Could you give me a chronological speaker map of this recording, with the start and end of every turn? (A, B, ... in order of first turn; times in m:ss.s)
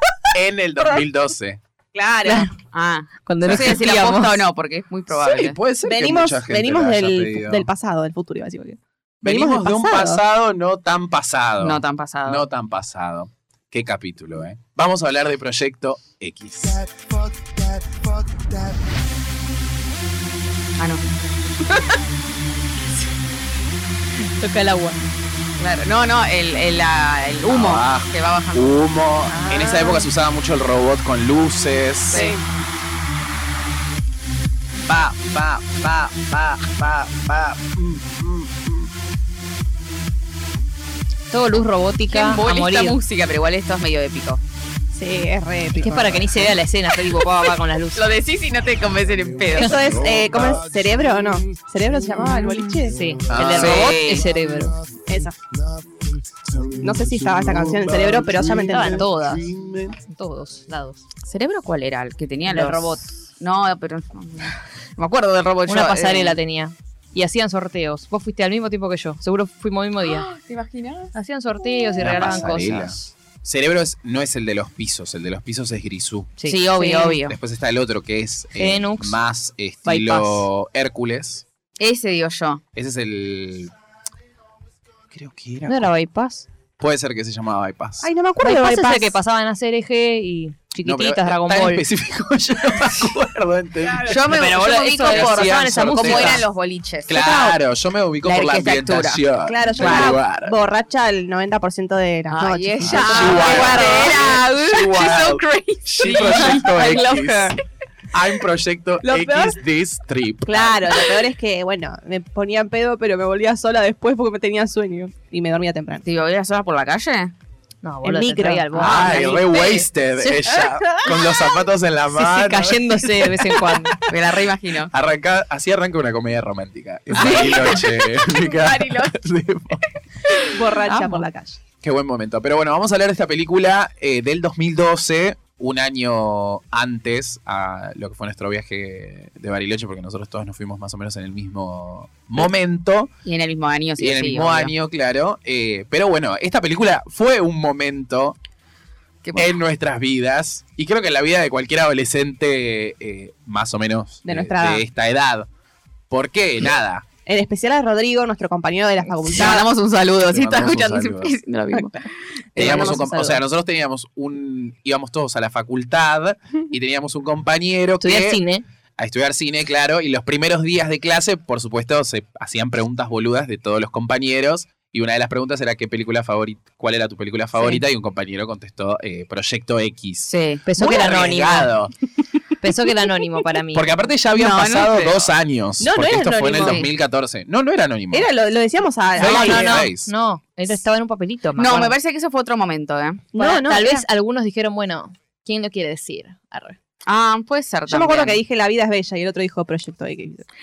0:00.3-0:01.6 A
0:01.9-0:02.5 B
0:02.2-0:02.5 C
0:02.7-0:05.6 D
0:03.2-0:04.4 C
0:05.1-0:07.7 A
0:05.8-0:10.2 B
0:09.2-0:16.8 A
0:11.6-0:12.4 D
0:20.8-0:21.0 D
0:24.2-0:25.0 C
0:25.6-0:28.8 D
0:27.4-0:32.3 A
0:29.3-0:30.1 B
0:32.1-0:32.4 D
0:32.1-0:32.4 B
0:34.8-0:38.9 A
0:41.3-0:43.0 C
0:42.1-0:44.4 D
0:44.9-0:46.4 B
0:45.7-0:48.1 C
0:47.9-0:49.9 D
0:49.5-0:53.0 B
0:52.9-0:54.8 C
0:53.3-0:53.9 A
0:53.5-0:54.3 D
0:55.0-0:55.4 B
0:56.8-0:59.1 B
0:58.0-0:59.5 C
0:58.7-1:00.0 A
1:00.0-1:01.0 C
1:01.2-1:06.4 D
1:02.5-1:03.1 C
1:05.7-1:10.3 C
1:10.0-1:11.1 D
1:11.1-1:13.1 C
1:12.0-1:16.3 A
1:16.4-1:17.2 C
1:16.4-1:17.4 D
1:17.3-1:21.4 A
1:18.6-1:19.2 C
1:19.8-1:20.5 C
1:21.8-1:22.6 D
1:22.7-1:23.7 A
1:25.1-1:25.9 A
1:25.6-1:26.4 C
1:26.8-1:28.1 A
1:28.0-1:29.1 B
1:28.4-1:31.8 C
1:30.8-1:34.4 A
1:33.9-1:37.6 D
1:34.2-1:36.4 C
1:35.0-1:36.4 A
1:37.1-1:40.6 A
1:38.2-1:39.2 D
1:39.4-1:44.4 B
1:39.8-1:40.2 D
1:42.3-1:47.5 D
1:42.9-1:47.6 A
1:48.1-1:50.9 A
1:49.0-1:49.6 B
1:50.4-1:56.0 B
1:56.0-1:57.3 D
1:57.8-1:59.4 C
1:58.0-1:59.1 B
1:58.7-1:59.8 D
1:58.8-2:03.6 A
2:02.1-2:04.0 C
2:04.0-2:04.9 D
2:04.9-2:09.9 A
2:07.1-2:09.1 D
2:10.3-2:10.6 D
2:10.5-2:11.6 B
2:10.8-2:11.2 C
2:11.8-2:23.1 A
2:23.2-2:24.7 D
2:24.0-2:28.4 A
2:29.2-2:29.5 D
2:29.3-2:35.5 A
2:34.2-2:34.8 B
2:36.1-2:37.0 A
2:37.2-2:39.7 B
2:39.2-2:42.1 D
2:40.2-2:41.3 A
2:42.5-2:43.4 B
2:42.6-2:48.4 A
2:42.6-2:43.4 C
2:48.0-2:48.6 C
2:49.0-3:01.9 A
3:00.3-3:00.6 D
3:00.6-3:01.7 C
3:02.6-3:03.9 C
3:03.7-3:08.3 A
3:04.3-3:05.3 D
3:05.8-3:06.8 B
3:06.6-3:06.9 D
3:08.1-3:09.9 B
3:09.2-3:10.1 A
3:09.2-3:11.9 C
3:11.6-3:13.2 D
3:13.3-3:14.0 B
3:13.4-3:16.8 C
3:17.0-3:18.4 D
3:17.9-3:20.4 B